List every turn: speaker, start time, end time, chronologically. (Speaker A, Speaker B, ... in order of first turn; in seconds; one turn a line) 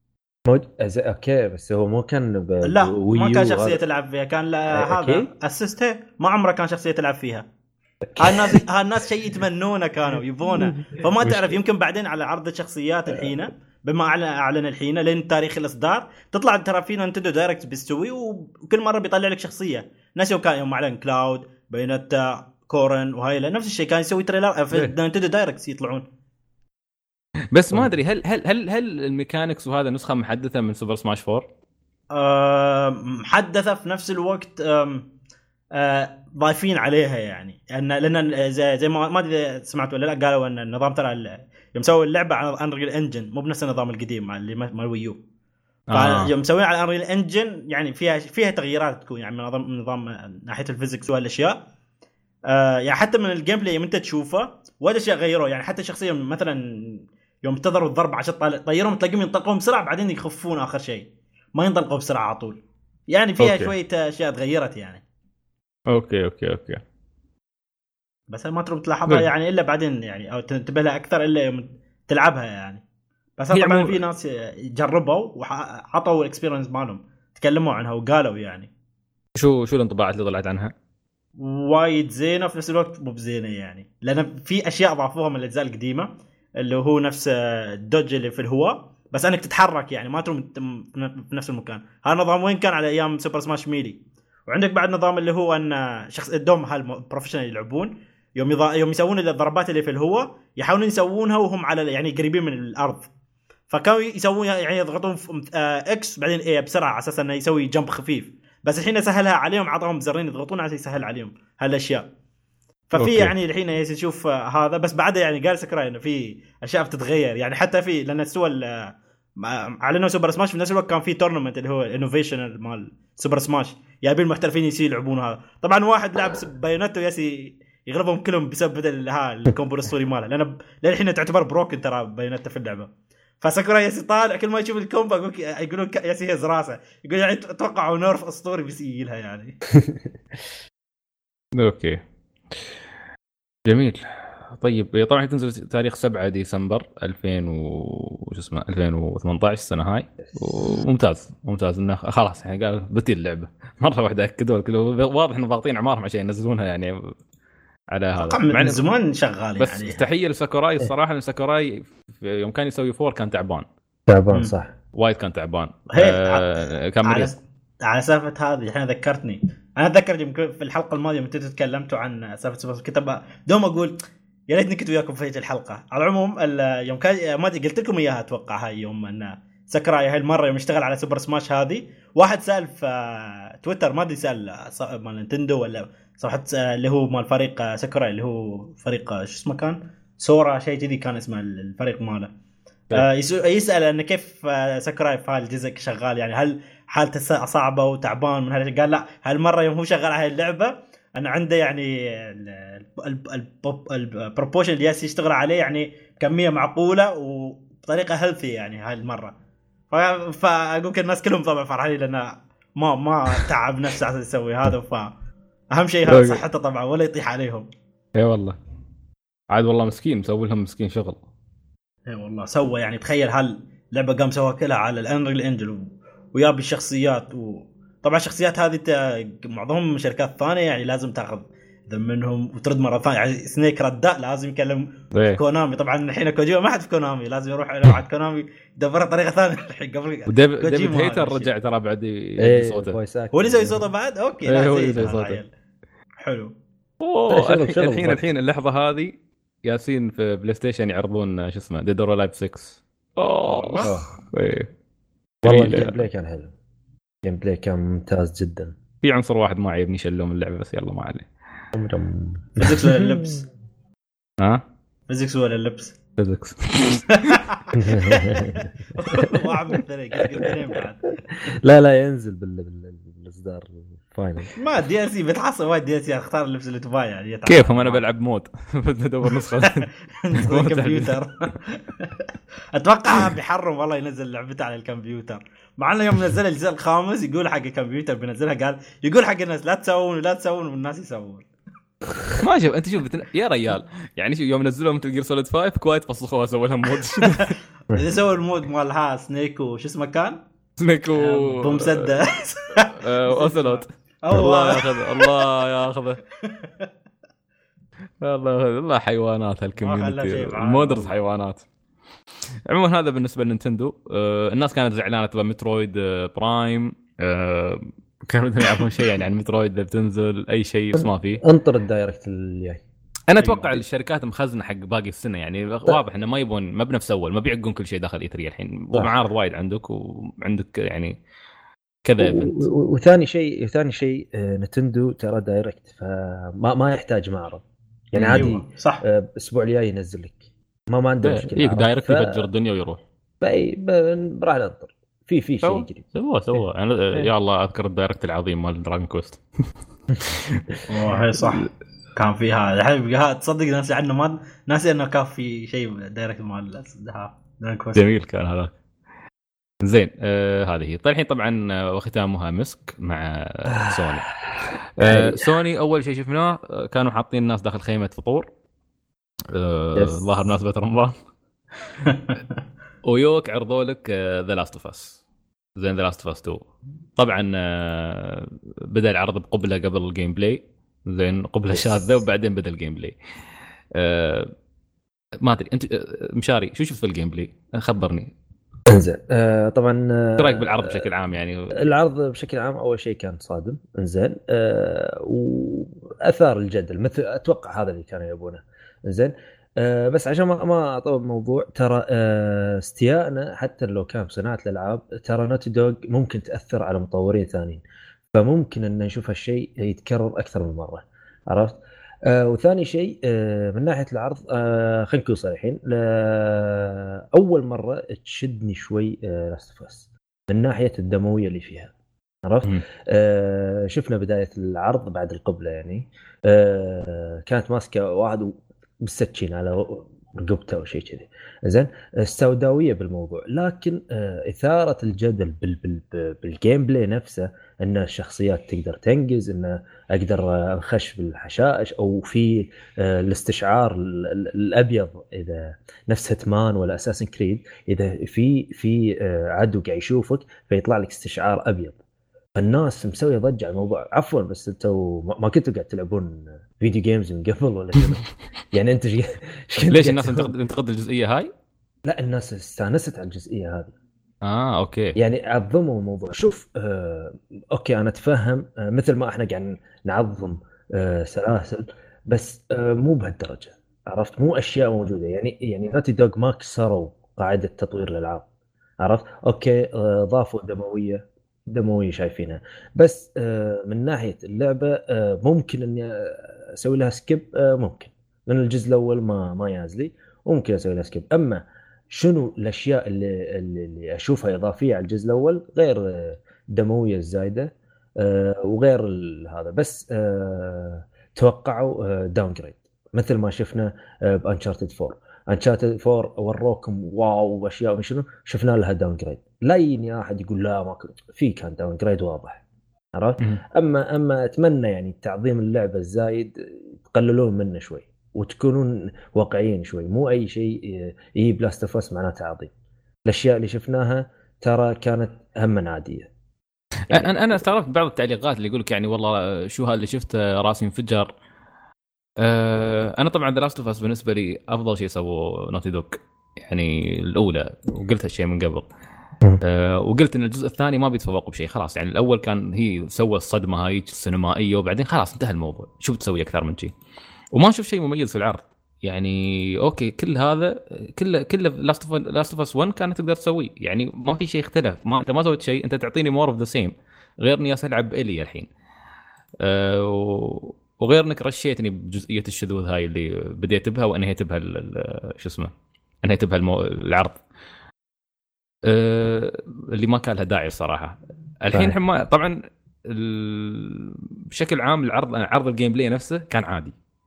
Speaker A: 0.5-3.8
Speaker B: 2.6-7.5
Speaker A: 4.7-5.3
Speaker A: 8.1-8.6
Speaker B: 8.2-26.1
Speaker A: 10.6-11.6
Speaker C: 27.5-31.5
Speaker B: 32.1-35.1
Speaker B: 35.7-45.2
Speaker C: 45.9-46.3
Speaker B: 45.9-51.6
Speaker B: 52.5-65.0
Speaker C: 63.4-63.7
Speaker C: 65.9-66.8
Speaker B: 68.3-72.8
Speaker B: 73.4-78.7
Speaker C: 73.5-73.9
Speaker C: 79.4-80.7
Speaker B: 81.4-103.1
Speaker B: 103.7-112.1
Speaker B: 112.9-132.9
Speaker C: 113.0-113.3
Speaker B: 133.4-139.6
Speaker A: 139.7-140.0
Speaker C: 141.6-142.0
Speaker C: 143.7-157.1
Speaker C: 157.9-158.8
Speaker B: 158.2-160.0
Speaker C: 159.6-163.7
Speaker A: 164.1-164.7
Speaker C: 164.9-167.3
Speaker B: 165.9-174.0
Speaker B: 174.5-192.3
Speaker B: 192.9-209.3
Speaker B: 209.9-215.1
Speaker B: 215.7-217.7
Speaker C: 216.1-216.4
Speaker C: 218.2-218.6
Speaker C: 219.5-221.2
Speaker B: 222.1-241.5
Speaker C: 235.1-235.4
Speaker C: 240.3-243.0
Speaker A: 242.4-243.8
Speaker B: 243.3-245.5
Speaker C: 244.5-245.4
Speaker B: 246.2-246.5
Speaker C: 247.0-254.7
Speaker A: 247.3-248.2
Speaker A: 253.8-254.1
Speaker C: 255.4-256.1
Speaker A: 255.4-256.5
Speaker A: 257.2-258.8
Speaker C: 259.0-261.3
Speaker A: 261.7-263.4
Speaker B: 262.6-263.5
Speaker B: 265.1-266.0
Speaker C: 266.2-267.4
Speaker B: 267.1-271.5
Speaker A: 267.7-274.5
Speaker B: 274.6-278.0
Speaker C: 277.5-281.2
Speaker B: 279.3-291.5
Speaker C: 292.4-297.6
Speaker B: 297.9-300.4
Speaker C: 300.8-302.1
Speaker B: 301.2-305.5
Speaker C: 302.9-306.2
Speaker B: 306.4-306.9
Speaker C: 308.2-311.7
Speaker B: 309.8-311.1
Speaker C: 312.7-321.4
Speaker A: 320.9-322.8
Speaker C: 323.3-331.1
Speaker B: 323.4-323.8
Speaker C: 332.1-332.7
Speaker A: 332.2-342.5
Speaker C: 338.2-338.5
Speaker B: 338.2-339.0
Speaker C: 341.2-343.0
Speaker A: 343.4-346.6
Speaker C: 345.6-349.4
Speaker C: 350.3-350.6
Speaker B: 350.9-358.0
Speaker C: 357.9-358.7
Speaker C: 359.8-364.3
Speaker A: 363.7-365.5
Speaker C: 365.0-368.5
Speaker C: 369.5-371.2
Speaker A: 369.9-370.5
Speaker C: 371.9-372.1
Speaker C: 373.1-375.2
Speaker C: 375.8-376.7
Speaker C: 377.2-383.1
Speaker A: 381.7-382.1
Speaker C: 383.9-384.5
Speaker C: 385.4-388.3
Speaker A: 388.9-391.1
Speaker C: 390.4-391.8
Speaker A: 391.8-407.8
Speaker A: 408.3-452.0
Speaker A: 452.6-460.5
Speaker C: 459.9-461.5
Speaker A: 462.1-463.9
Speaker C: 464.4-465.2
Speaker A: 465.2-478.5
Speaker A: 479.0-512.6
Speaker A: 513.1-522.7
Speaker A: 523.3-526.3
Speaker C: 527.1-531.3
Speaker C: 532.4-538.9
Speaker C: 539.6-546.9
Speaker C: 547.5-558.7
Speaker C: 559.6-565.7
Speaker C: 566.2-567.4
Speaker C: 568.9-576.9